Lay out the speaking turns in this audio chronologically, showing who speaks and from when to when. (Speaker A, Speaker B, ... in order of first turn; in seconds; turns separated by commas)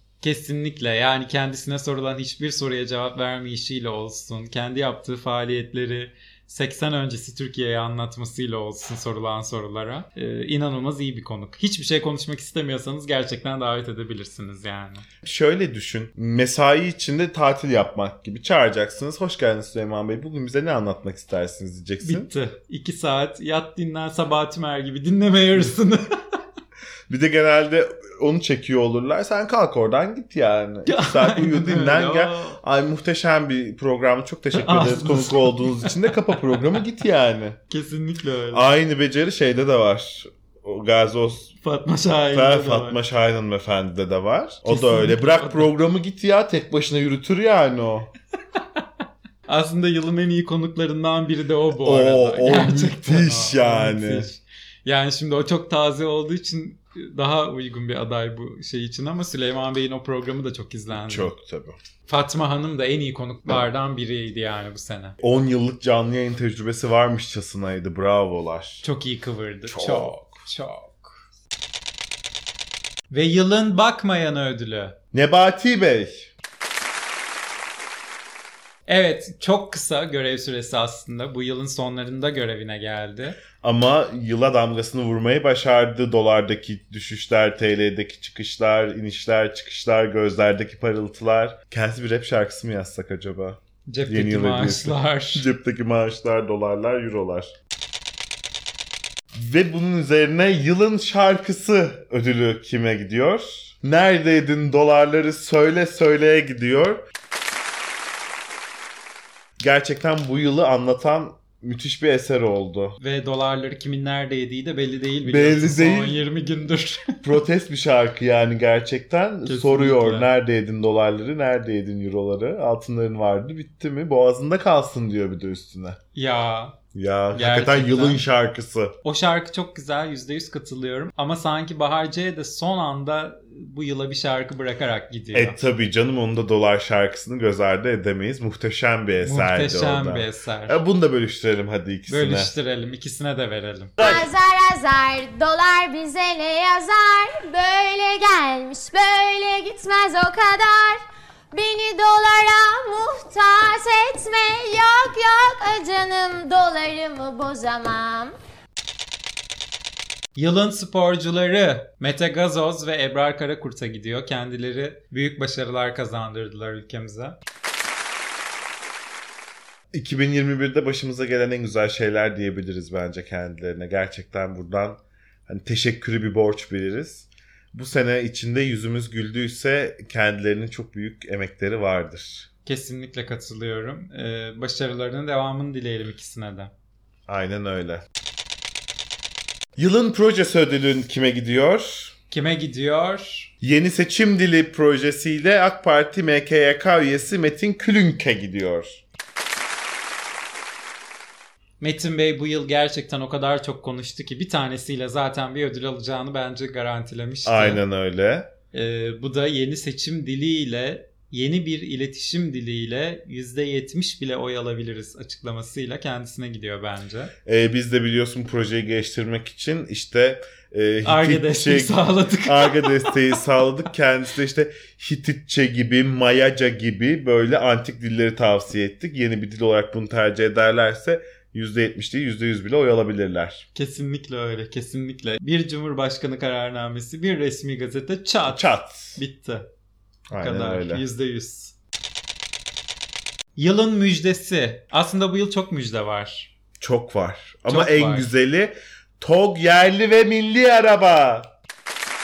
Speaker A: 0.2-15.1, Speaker B: 15.2-22.3, Speaker A: 22.0-26.2, Speaker B: 27.1-37.6, Speaker A: 30.9-32.6, Speaker A: 34.5-36.8, Speaker A: 37.7-38.7, Speaker B: 38.5-41.5, Speaker A: 41.6-43.0, Speaker B: 42.3-48.1, Speaker A: 44.7-45.7, Speaker A: 49.5-61.3, Speaker B: 51.7-54.3, Speaker B: 60.9-61.8, Speaker A: 62.1-65.2, Speaker B: 65.2-68.8, Speaker A: 68.8-71.2, Speaker B: 69.7-70.5, Speaker A: 73.1-75.0, Speaker B: 75.1-76.3, Speaker A: 78.9-83.4, Speaker B: 83.6-97.5, Speaker A: 93.9-95.5, Speaker B: 99.3-107.0, Speaker B: 109.6-113.0, Speaker A: 113.0-117.2, Speaker B: 115.2-116.2, Speaker B: 117.2-126.0, Speaker A: 119.5-120.3, Speaker A: 126.2-126.8, Speaker B: 126.9-129.0, Speaker A: 127.3-128.2, Speaker A: 129.0-135.6, Speaker B: 135.3-142.5, Speaker A: 139.2-140.8, Speaker A: 142.1-144.0, Speaker C: 144.0-158.3, Speaker A: 160.4-167.4, Speaker B: 169.9-182.5, Speaker A: 182.7-186.7, Speaker B: 187.3-188.0, Speaker B: 189.8-192.2, Speaker A: 192.3-193.5, Speaker B: 193.6-199.0, Speaker A: 201.8-207.8, Speaker B: 207.4-208.5, Speaker A: 208.7-217.3, Speaker B: 217.5-233.7, Speaker A: 221.1-223.2, Speaker A: 233.8-239.7, Speaker B: 238.5-239.2, Speaker B: 240.3-241.0, Speaker A: 240.3-241.7, Speaker A: 243.6-246.5, Speaker B: 246.8-251.5, Speaker A: 247.7-248.3